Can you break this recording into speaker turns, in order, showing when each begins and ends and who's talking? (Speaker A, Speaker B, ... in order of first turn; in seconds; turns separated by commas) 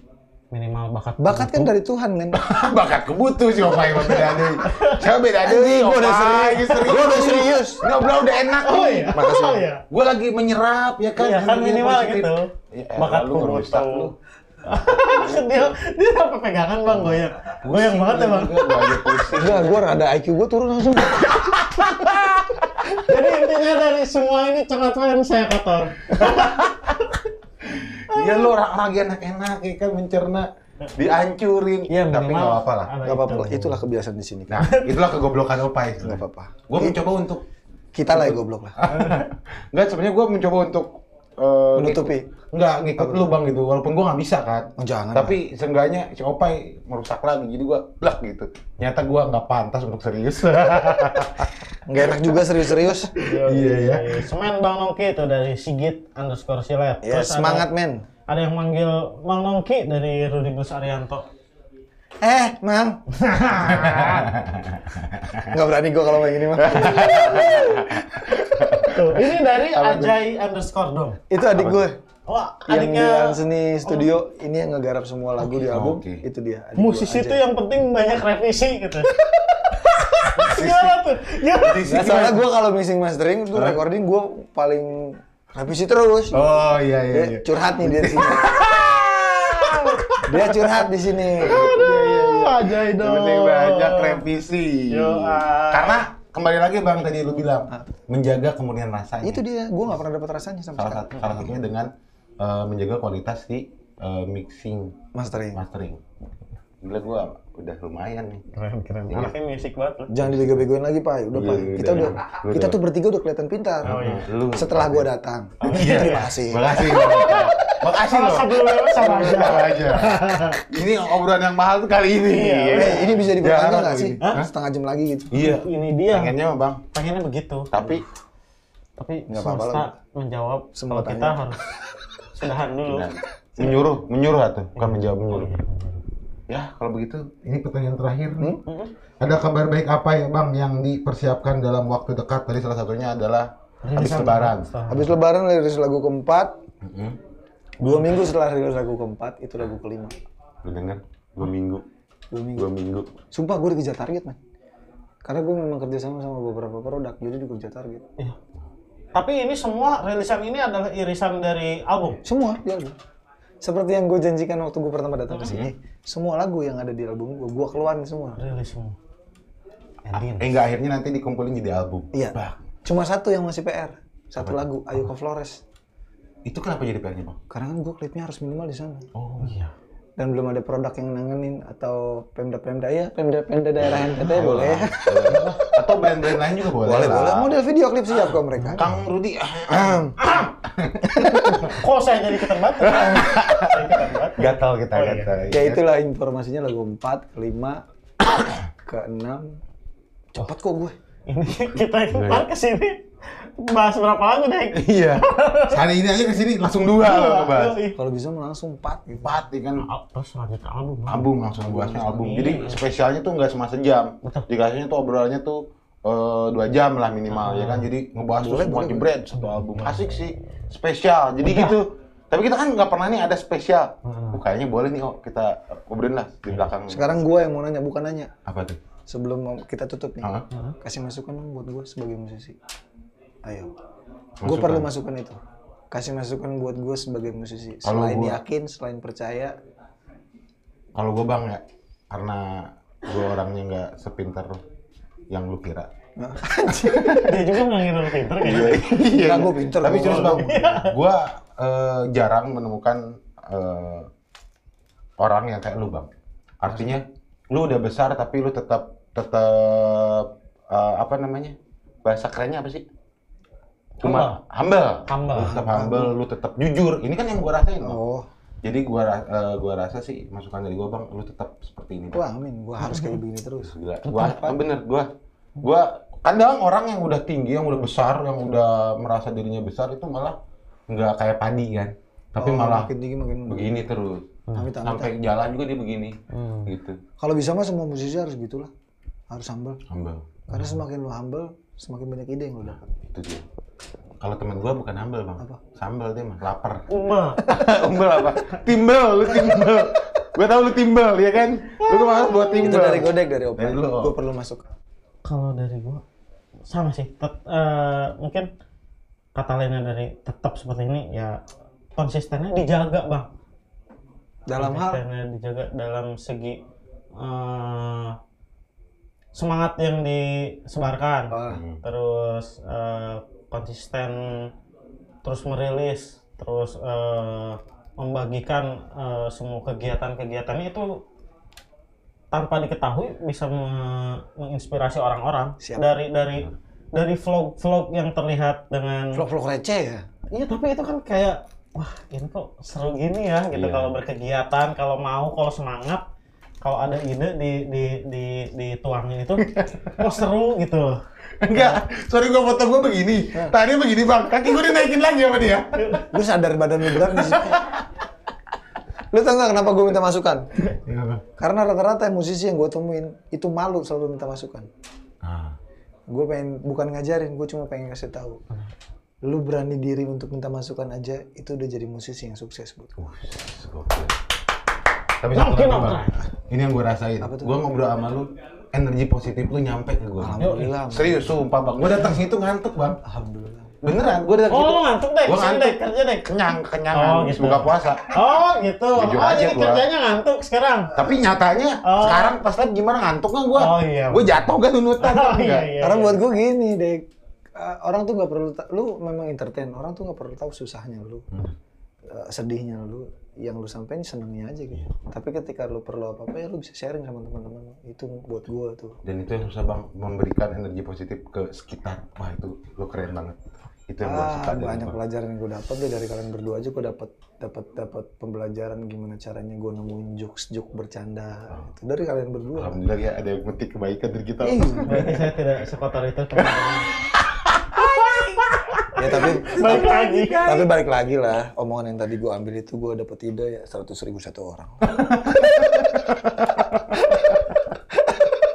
Speaker A: 0.5-1.7, Speaker B: 1.2-2.6, Speaker C: 2.3-14.2, Speaker B: 3.8-4.4, Speaker A: 4.1-5.0, Speaker B: 5.4-7.8, Speaker A: 8.6-9.8, Speaker B: 9.1-9.6, Speaker A: 11.2-14.1, Speaker A: 14.6-19.3, Speaker C: 16.9-19.9, Speaker B: 19.3-21.5, Speaker C: 21.3-22.7, Speaker A: 22.9-27.2, Speaker C: 26.2-27.0, Speaker C: 27.6-32.9, Speaker A: 28.1-28.5, Speaker A: 31.9-33.8, Speaker B: 33.0-34.6, Speaker C: 34.5-37.4, Speaker A: 34.6-35.0, Speaker B: 36.0-37.0, Speaker B: 37.9-39.0, Speaker C: 38.1-51.6, Speaker A: 38.9-39.2, Speaker B: 41.8-42.3, Speaker B: 43.0-43.4, Speaker B: 44.8-45.4, Speaker B: 51.9-53.1, Speaker C: 52.5-54.3, Speaker A: 53.2-57.7, Speaker B: 57.0-58.0, Speaker A: 58.3-61.2, Speaker B: 62.2-63.0, Speaker A: 63.1-64.3, Speaker C: 63.6-65.5, Speaker B: 65.5-67.8, Speaker C: 66.5-70.2, Speaker A: 66.7-67.9, Speaker A: 68.8-71.2, Speaker B: 71.3-72.0, Speaker C: 71.5-71.9, Speaker A: 72.3-74.1, Speaker B: 72.7-77.4, Speaker C: 75.5-76.2, Speaker A: 76.8-81.9, Speaker B: 80.4-80.9, Speaker C: 81.6-82.5, Speaker B: 81.8-88.7, Speaker C: 86.3-90.5, Speaker A: 89.4-90.5, Speaker B: 90.2-91.8, Speaker C: 91.3-99.4, Speaker A: 91.4-94.2, Speaker A: 94.9-96.0, Speaker B: 97.7-98.0, Speaker B: 99.2-101.5, Speaker C: 100.8-106.0, Speaker B: 105.1-105.6, Speaker C: 106.8-108.5, Speaker A: 108.5-110.3, Speaker C: 109.1-109.3, Speaker B: 110.1-114.0, Speaker C: 111.3-112.8, Speaker A: 113.8-114.2, Speaker C: 113.8-115.1, Speaker B: 114.5-117.2, Speaker A: 115.6-120.6, Speaker C: 115.6-124.5, Speaker B: 119.0-119.6, Speaker A: 122.3-123.2, Speaker B: 122.7-125.3, Speaker A: 124.2-124.5, Speaker C: 125.3-126.8, Speaker A: 125.3-126.3, Speaker A: 126.9-128.0, Speaker C: 127.7-128.0, Speaker A: 129.0-131.8, Speaker B: 129.3-129.9, Speaker B: 130.8-131.5, Speaker A: 132.3-133.1, Speaker C: 132.9-135.5, Speaker A: 134.8-136.0, Speaker C: 136.5-138.6, Speaker B: 138.4-138.6, Speaker A: 138.7-138.9, Speaker C: 139.2-144.7, Speaker A: 143.8-145.1, Speaker B: 144.9-146.6, Speaker C: 146.8-147.2, Speaker B: 147.8-150.2, Speaker C: 150.6-151.8, Speaker B: 152.3-152.7, Speaker C: 152.6-153.1, Speaker B: 153.3-154.4, Speaker B: 155.2-158.1, Speaker A: 159.2-162.2, Speaker B: 162.2-162.9, Speaker B: 163.6-168.4, Speaker A: 165.3-165.6, Speaker C: 165.4-165.7, Speaker A: 168.4-169.0, Speaker A: 170.1-170.6, Speaker C: 170.1-172.6, Speaker B: 172.1-175.6, Speaker C: 174.4-174.7, Speaker C: 176.5-177.4, Speaker B: 177.5-179.1, Speaker C: 179.1-179.7, Speaker B: 180.2-185.8, Speaker C: 183.8-187.6, Speaker B: 186.8-188.9, Speaker A: 188.5-189.0, Speaker C: 188.7-191.8, Speaker A: 190.2-190.5, Speaker A: 191.5-195.5, Speaker C: 192.8-195.8, Speaker B: 195.5-197.8, Speaker B: 198.8-199.6, Speaker B: 200.3-201.0, Speaker A: 201.3-205.8, Speaker C: 202.1-202.5, Speaker C: 204.7-207.8, Speaker A: 207.0-208.0, Speaker B: 207.9-209.4, Speaker C: 209.2-209.9, Speaker A: 209.8-211.3, Speaker C: 211.1-227.1, Speaker B: 211.6-212.1, Speaker A: 212.0-212.8, Speaker A: 217.3-217.9, Speaker B: 218.4-219.1, Speaker A: 219.3-220.6, Speaker A: 221.4-221.8, Speaker A: 224.0-224.4, Speaker B: 226.9-228.3, Speaker C: 228.5-228.8, Speaker B: 229.1-232.6, Speaker C: 230.2-230.5, Speaker A: 230.5-230.8, Speaker B: 233.4-233.7, Speaker C: 234.4-234.9, Speaker B: 234.4-235.4, Speaker B: 235.9-239.6, Speaker C: 237.8-238.4, Speaker C: 240.9-244.6, Speaker C: 245.3-245.9, Speaker B: 246.2-247.3, Speaker C: 246.7-247.3, Speaker A: 246.9-248.9, Speaker C: 248.4-254.1, Speaker B: 248.6-250.5, Speaker A: 250.0-250.9, Speaker C: 255.2-262.9, Speaker A: 264.0-264.4, Speaker C: 264.0-268.0, Speaker A: 265.1-265.6, Speaker B: 265.4-266.1, Speaker B: 267.8-268.3, Speaker C: 268.6-272.2, Speaker B: 272.1-274.6, Speaker A: 272.8-273.2, Speaker C: 273.6-280.4, Speaker A: 274.0-274.4, Speaker C: 280.9-282.9, Speaker B: 282.4-283.8, Speaker C: 283.5-287.0, Speaker B: 284.6-285.1, Speaker A: 286.3-286.7, Speaker B: 287.2-288.7, Speaker B: 289.3-289.8, Speaker C: 289.9-290.4, Speaker B: 290.5-292.8, Speaker A: 290.5-290.8, Speaker C: 292.7-293.4, Speaker C: 294.2-296.9, Speaker A: 296.9-297.5, Speaker C: 297.4-304.1, Speaker B: 299.3-300.0, Speaker A: 301.8-302.7, Speaker B: 302.6-304.7, Speaker A: 305.2-306.0, Speaker A: 306.7-308.5, Speaker A: 309.4-311.4, Speaker A: 312.0-313.3, Speaker B: 314.5-315.0, Speaker A: 314.6-316.6, Speaker A: 317.2-318.2, Speaker A: 319.3-324.5, Speaker B: 321.3-321.6, Speaker C: 321.5-321.8, Speaker A: 325.2-331.0, Speaker A: 332.3-339.2, Speaker B: 335.6-335.9, Speaker B: 339.1-340.1, Speaker A: 340.3-346.0, Speaker C: 343.5-343.9, Speaker A: 346.6-351.8, Speaker C: 349.4-350.1, Speaker C: 351.4-356.1, Speaker B: 356.1-357.6, Speaker C: 357.0-357.9, Speaker B: 359.1-360.7, Speaker C: 360.8-361.2, Speaker B: 361.4-364.7, Speaker C: 365.2-365.6, Speaker B: 366.1-368.4, Speaker B: 369.2-373.0, Speaker C: 373.0-374.2, Speaker C: 375.2-383.0, Speaker A: 375.3-376.3, Speaker B: 377.2-377.6, Speaker B: 380.2-381.4, Speaker A: 380.3-380.7, Speaker B: 383.0-383.7, Speaker C: 383.8-388.2, Speaker A: 384.5-390.9, Speaker C: 388.9-389.9, Speaker C: 390.9-395.7, Speaker A: 391.8-392.4, Speaker A: 393.6-396.2, Speaker B: 395.8-401.3, Speaker B: 402.1-409.0, Speaker C: 409.0-414.9, Speaker B: 414.0-422.8, Speaker C: 422.6-425.2, Speaker B: 424.4-425.1, Speaker A: 424.9-426.9, Speaker C: 427.4-428.2, Speaker A: 427.8-430.7, Speaker B: 429.0-435.0, Speaker C: 435.0-437.4, Speaker B: 437.0-437.3